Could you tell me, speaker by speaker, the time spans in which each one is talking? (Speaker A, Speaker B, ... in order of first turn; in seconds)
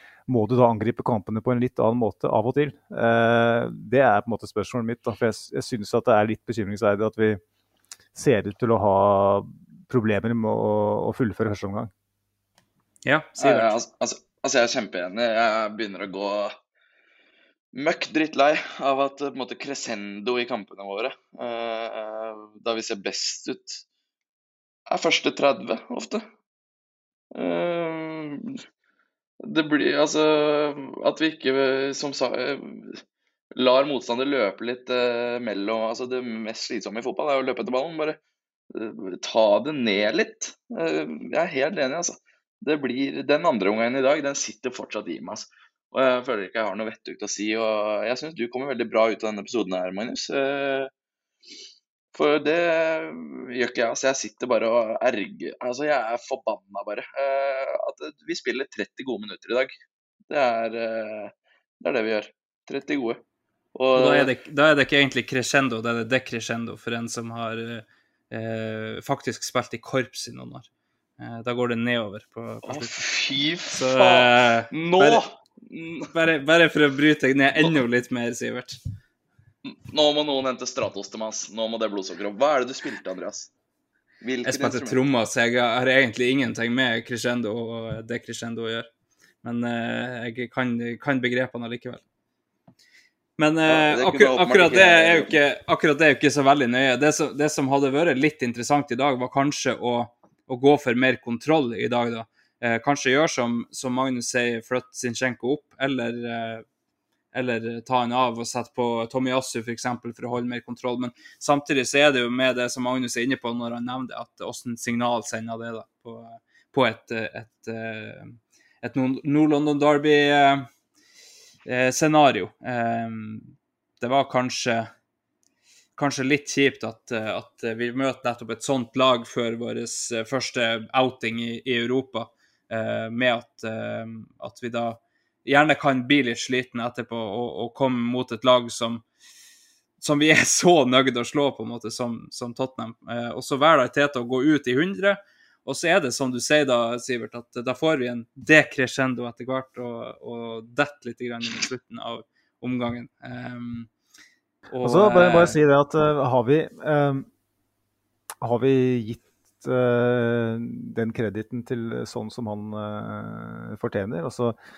Speaker A: 0.3-7.4, 8.1-11.9, 154.8-157.3, 158.4-164.6
Speaker B: 13.0-13.8, 63.9-70.7, 71.2-73.0, 73.7-75.2, 76.1-78.8, 84.4-88.9, 89.4-92.0, 93.4-106.6, 107.3-120.7, 121.7-124.9, 126.0-139.0, 140.0-153.9, 154.7-155.6
Speaker C: 13.4-16.5, 17.7-23.8, 24.9-26.2, 27.3-28.6, 29.4-33.0, 33.5-38.2, 38.7-50.9, 52.1-59.7, 60.3-63.2, 63.7-64.3, 72.7-76.1, 79.6-83.5, 84.2-85.0, 93.7-95.4